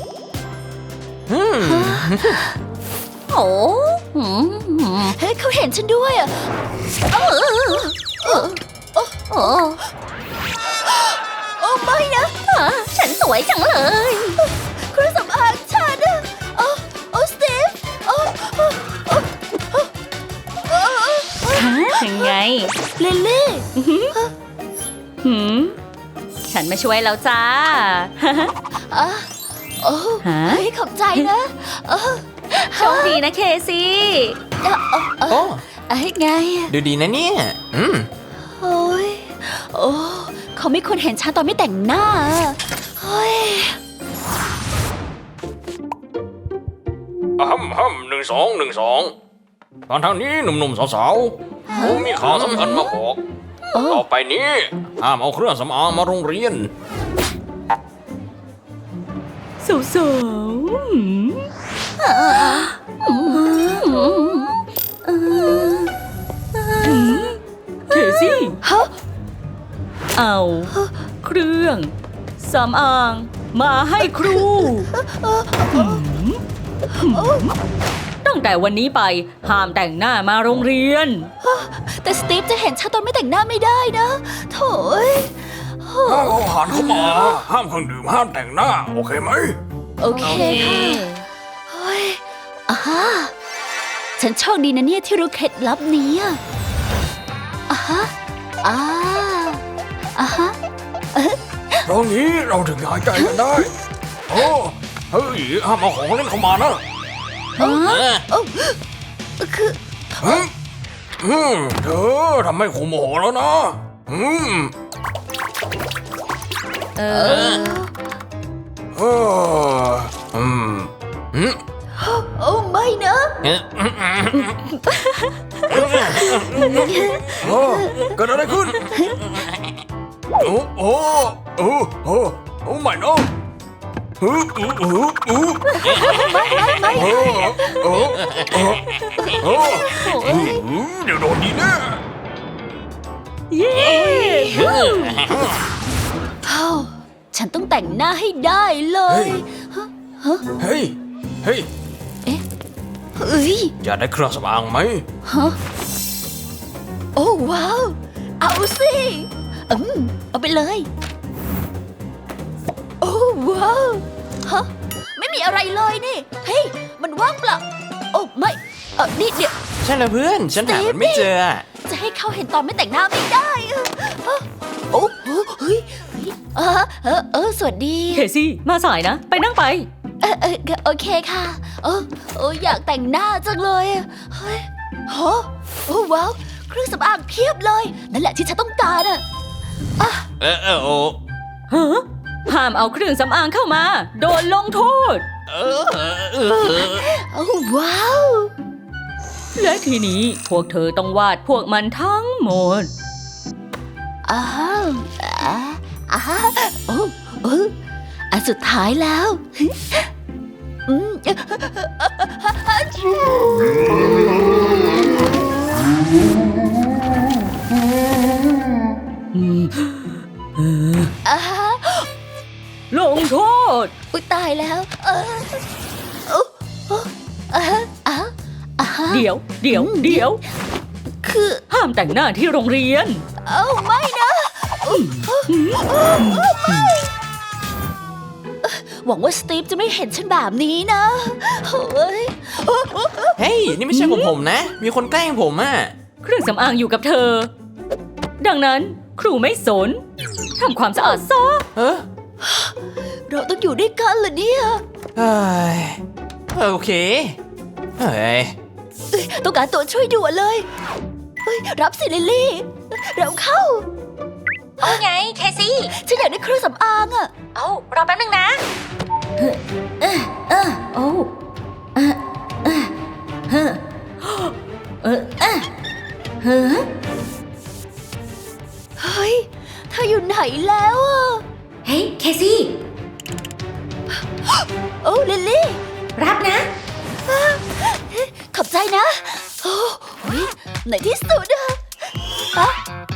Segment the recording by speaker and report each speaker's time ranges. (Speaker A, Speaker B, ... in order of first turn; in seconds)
Speaker A: 1.3-2.4, 35.3-35.6, 36.7-38.1, 123.4-124.5, 169.8-171.6, 190.4-191.2, 195.5-197.1, 243.4-245.9, 251.7-252.1, 255.2-256.0, 256.5-257.4, 258.0-258.5
Speaker B: 1.6-2.6, 5.0-6.5, 7.1-9.6, 10.8-12.4, 14.4-19.9, 20.7-22.3, 22.9-24.3, 28.8-33.2, 34.6-36.7, 38.4-43.8, 51.7-52.9, 53.7-54.0, 62.0-63.8, 66.5-67.2, 67.9-68.9, 74.0-76.0, 76.9-77.5, 81.4-87.4, 90.0-91.1, 91.7-93.3, 94.2-96.4, 97.7-99.6, 100.1-100.6, 101.1-101.9, 103.1-103.7, 107.6-108.8, 109.4-110.5, 117.1-117.9, 122.0-123.4, 126.1-128.2, 128.8-129.2, 136.1-137.7, 139.2-140.6, 146.4-150.4, 153.2-153.7, 155.2-155.6, 157.2-160.9, 163.0-169.6, 170.6-171.3, 171.8-178.2, 180.2-189.2, 190.0-190.3, 196.7-198.5, 204.2-207.7, 208.3-210.1, 210.9-215.0, 221.2-222.1, 224.1-225.6, 226.3-230.3, 231.1-231.6, 233.4-237.1, 238.6-243.4, 252.4-252.8, 253.3-254.8, 259.1-260.6, 261.4-263.9, 265.9-267.3, 279.0-281.4, 284.4-285.8, 287.2-291.8, 292.5-292.8
Speaker C: 3.3-5.2, 9.3-9.8, 12.5-14.4, 21.5-22.7, 23.8-24.1, 25.2-25.8, 26.5-28.5, 30.2-31.3, 32.8-34.4, 59.6-61.5, 62.3-62.7, 63.3-65.9, 66.8-68.6, 70.1-74.9, 75.7-76.4, 77.0-77.5, 78.2-81.3, 90.1-91.2, 117.0-117.8, 124.4-126.9, 135.7-137.5, 139.0-140.6, 143.5-145.2, 178.1-179.9, 191.7-195.2, 199.6-202.9, 219.3-221.1, 222.9-223.9, 229.1-230.4, 231.7-233.2, 234.9-236.9, 243.9-244.3, 246.2-247.5, 248.4-250.0, 250.6-251.6, 264.8-265.9, 267.5-268.6, 269.4-271.3, 271.9-272.9, 273.5-275.7, 276.4-276.9, 281.8-282.7, 286.1-286.7
Speaker D: 47.4-49.1, 49.9-53.2, 53.9-56.7, 86.0-89.6, 90.2-90.9, 101.8-103.7, 104.3-106.8, 107.6-108.2, 110.2-110.5, 111.2-114.7, 117.2-117.6, 118.9-121.6, 125.7-126.9, 127.4-128.9, 130.4-133.3, 134.2-142.0, 143.7-145.6, 149.1-149.4, 150.6-151.7, 153.8-155.0